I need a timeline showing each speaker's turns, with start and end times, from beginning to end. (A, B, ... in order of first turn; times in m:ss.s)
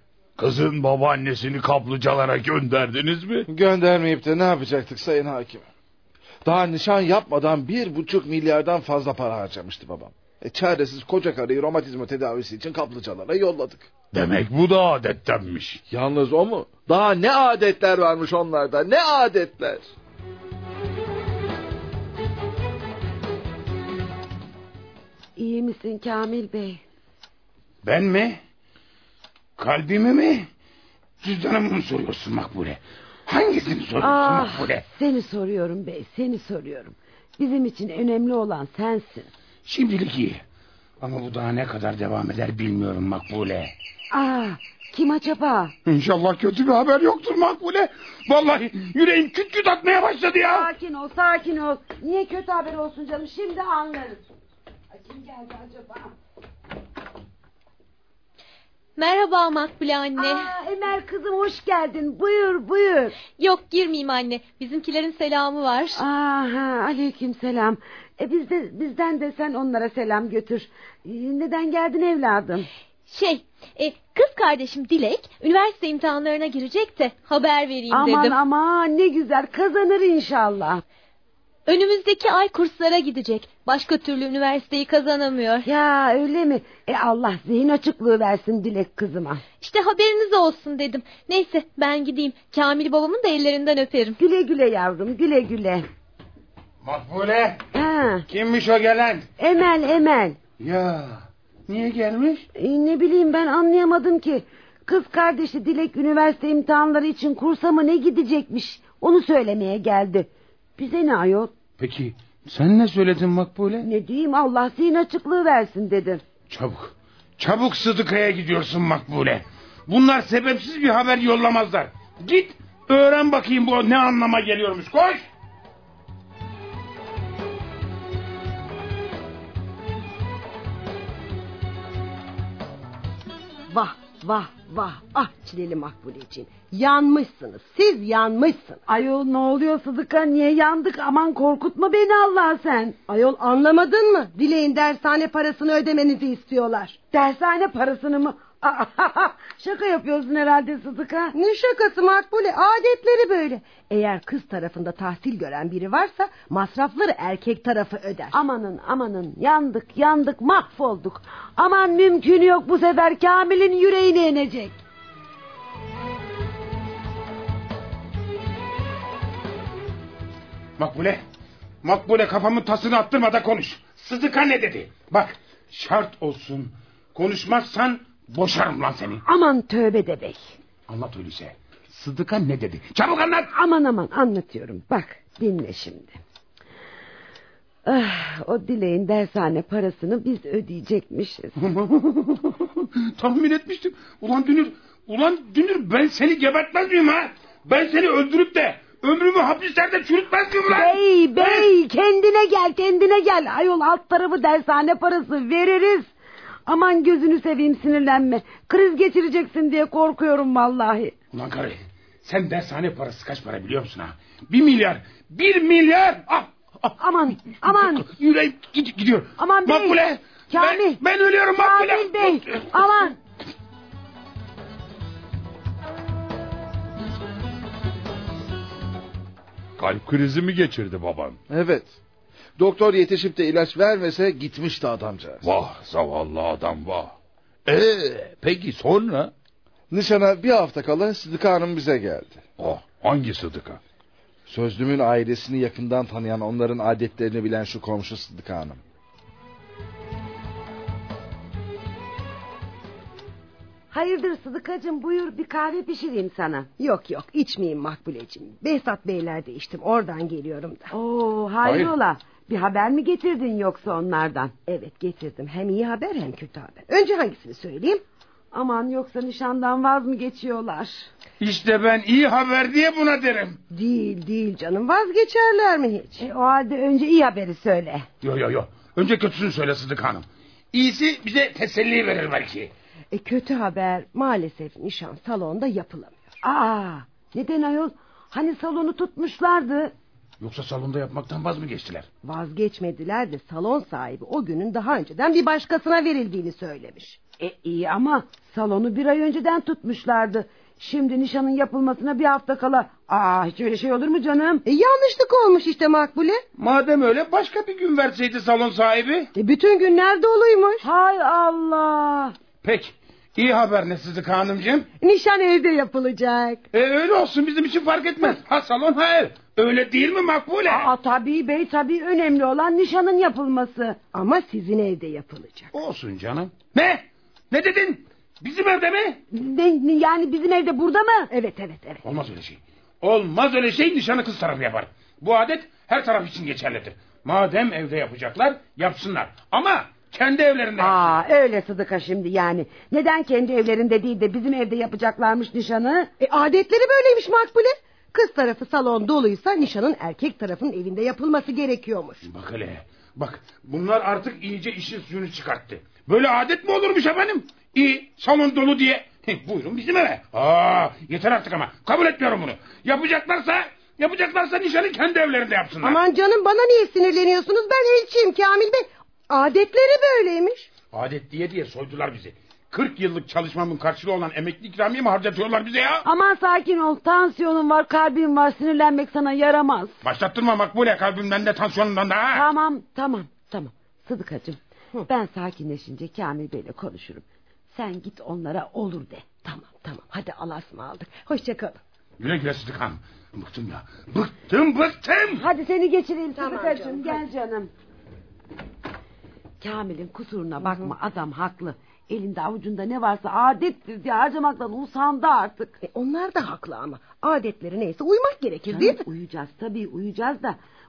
0:00.4-0:03.5 A
0:03.5-0:05.6 B
0:06.4-0:13.9 B
0:14.1-0:15.8 C
0:14.3-0:15.8 A
0:15.9-0:19.8 B
0:25.4-0:26.8 D
0:27.8-0:28.4 C
0:29.6-0:30.5 C
0:31.2-0:34.8 C
0:34.0-0:39.3 D
0:39.6-0:40.4 C
0:41.0-0:43.7 C
0:44.1-0:45.7 D
0:45.8-0:50.7 C
0:50.4-0:54.2 D
0:54.9-0:56.1 D
0:59.0-1:00.5 E
1:00.2-1:03.2 D
1:03.4-1:06.0 E
1:05.9-1:12.7 D
1:13.1-1:18.4 E
1:17.9-1:20.8 D
1:21.7-1:25.7 E
1:25.6-1:29.4 D
1:29.6-1:34.2 E
1:34.2-1:35.8 D
1:36.8-1:37.6 C
1:37.7-1:38.2 D
1:38.3-1:39.3 C
1:39.4-1:40.4 D
1:40.6-1:42.4 C
1:42.5-1:51.5 D
1:51.8-1:53.8 C
1:53.8-1:56.2 D
1:56.5-2:05.2 C
2:13.7-2:18.8 F
2:18.9-2:23.0 D
2:23.1-2:27.0 F
2:27.1-2:31.4 D
2:31.3-2:38.4 F
2:38.3-2:44.8 D
2:50.8-2:51.2 C
2:51.8-2:59.2 C
2:59.2-3:00.4 D
3:00.9-3:03.5 C
3:03.5-3:06.2 D
3:07.8-3:11.5 D
3:11.6-3:21.7 C
3:20.7-3:26.1 D
3:26.6-3:31.1 D
3:31.3-3:37.0 C
3:37.0-3:38.1 D
3:37.5-3:43.0 C
3:39.4-3:41.0 D
3:41.6-3:43.2 D
3:49.8-3:51.4 A
3:51.5-3:52.0 B
3:52.6-3:55.4 B
3:55.4-3:57.1 A
3:57.6-3:59.3 A
3:59.9-4:02.4 B
4:02.6-4:03.8 A
4:04.5-4:08.8 B
4:13.9-4:16.7 D
4:16.8-4:20.9 F
4:20.9-4:24.5 D
4:21.6-4:21.9 C
4:24.6-4:28.0 F
4:28.5-4:31.0 D
4:31.4-4:33.6 C
4:33.7-4:36.2 F
4:36.2-4:38.1 D
4:38.2-4:42.7 C
4:43.1-4:46.2 F
4:46.4-4:49.9 D
4:50.4-4:52.1 C
4:52.2-4:57.2 F
4:57.4-5:04.6 D
5:04.6-5:06.4 F
5:06.6-5:09.3 C
5:09.4-5:10.8 F
5:10.8-5:12.3 D
5:12.6-5:14.9 C
5:15.0-5:16.6 F
5:16.7-5:20.9 C
5:20.6-5:24.0 D
5:24.1-5:25.7 F
5:25.7-5:29.2 C
5:29.3-5:31.3 D
5:31.3-5:32.0 F
5:32.0-5:41.1 C
5:40.8-5:46.1 D
5:46.2-5:52.2 F
5:52.2-6:06.0 C
6:05.8-6:10.7 F
6:10.9-6:16.0 C
6:16.0-6:20.0 D
6:20.0-6:22.4 C
6:22.3-6:29.3 D
6:29.4-6:31.8 F
6:32.2-6:35.4 C
6:35.3-6:37.7 D
6:36.4-6:37.2 F
6:39.6-6:45.8 D
6:40.6-6:40.9 F
6:45.8-6:49.0 F
6:48.7-6:50.6 D